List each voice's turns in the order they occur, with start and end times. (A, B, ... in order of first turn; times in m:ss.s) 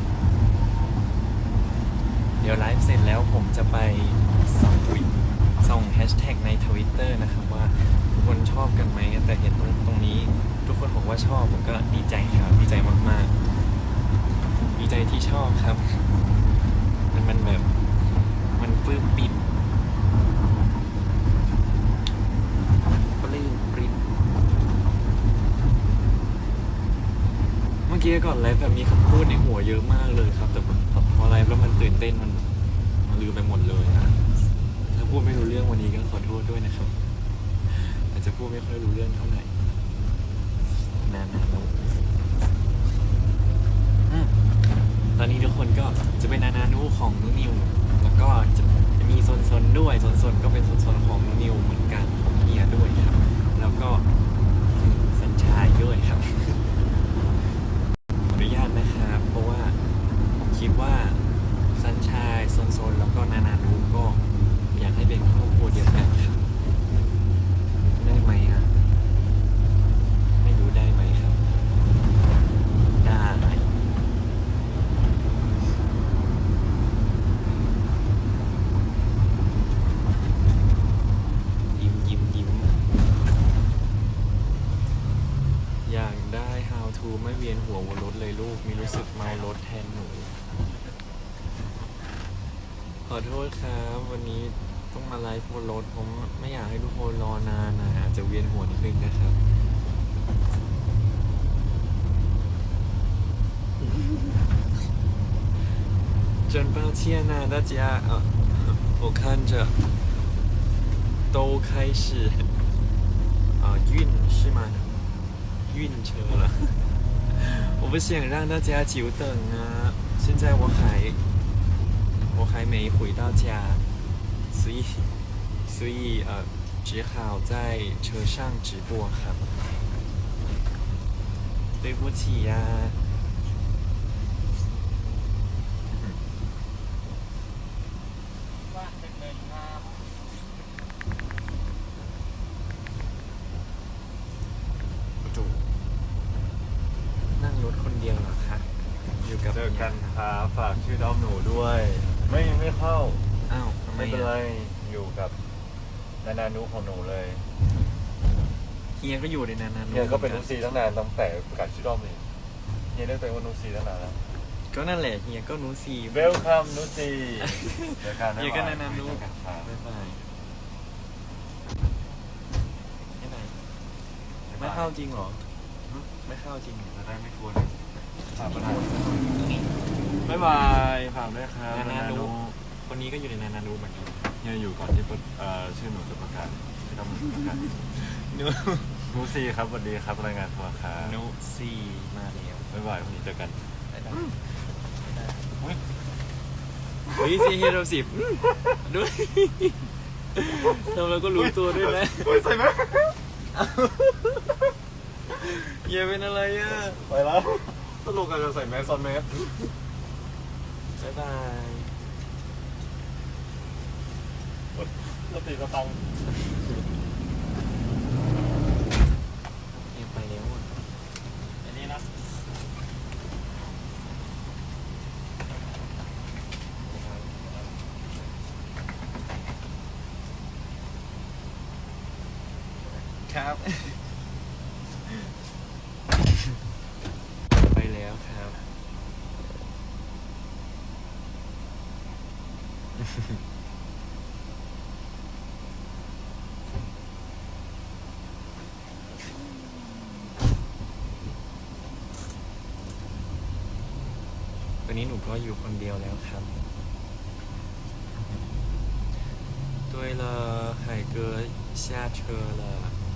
0:02.4-0:13.4 A
0:14.8-0:16.1 A
0:17.1-0:17.7 A
0:18.6-0:19.4 A
0:23.2-0:24.0 A
0:27.9-0:32.5 A
0:33.0-0:34.2 A
0:34.9-0:37.0 A
0:37.7-0:39.5 A
0:41.0-0:41.7 A
0:44.1-0:44.3 A
0:45.2-0:54.1 A
0:54.8-0:56.6 A
0:58.3-0:59.8 A
1:00.4-1:01.2 A
1:01.8-1:04.2 A
1:04.7-1:06.4 A
1:08.0-1:08.7 A
1:10.4-1:11.4 A
1:13.0-1:13.7 A
1:21.8-1:22.7 A
1:25.8-1:30.3 A
1:33.1-1:39.4 A
1:46.5-1:49.8 A
1:51.3-1:52.5 A
1:53.6-1:54.9 A
1:55.7-1:56.8 A
1:57.3-2:01.2 A
2:02.3-2:03.8 A
2:04.5-2:05.1 A
2:05.7-2:09.4 A
2:11.8-2:13.0 A
2:15.9-2:16.2 A
2:25.2-2:25.7 A
2:27.4-2:28.7 A
2:29.2-2:30.2 A
2:29.5-2:33.2 B
2:33.5-2:34.3 A
2:34.0-2:35.4 B
2:36.2-2:37.5 B
2:39.0-2:40.6 A
2:39.9-2:42.2 B
2:42.9-2:44.2 B
2:44.7-2:46.5 A
2:46.1-2:49.7 B
2:47.5-2:50.2 A
2:53.2-2:53.6 A
2:54.5-2:54.9 B
2:54.6-2:55.4 A
2:56.2-2:57.0 A
2:56.9-2:57.8 B
2:58.3-2:59.0 B
2:58.4-2:59.3 A
3:00.2-3:02.6 B
3:01.7-3:04.3 A
3:04.4-3:07.6 B
3:07.9-3:09.0 A
3:09.1-3:11.2 B
3:11.0-3:12.7 A
3:12.7-3:13.6 B
3:13.9-3:14.5 A
3:17.1-3:22.4 A
3:21.3-3:23.2 B
3:23.5-3:24.5 A
3:25.3-3:27.0 A
3:26.7-3:29.5 B
3:31.0-3:31.9 A
3:34.7-3:36.0 B
3:39.9-3:40.7 A
3:41.7-3:42.0 B
3:53.2-3:54.2 A
3:57.7-3:58.6 A
4:14.8-4:16.5 A
4:18.2-4:18.5 A
4:19.9-4:23.0 A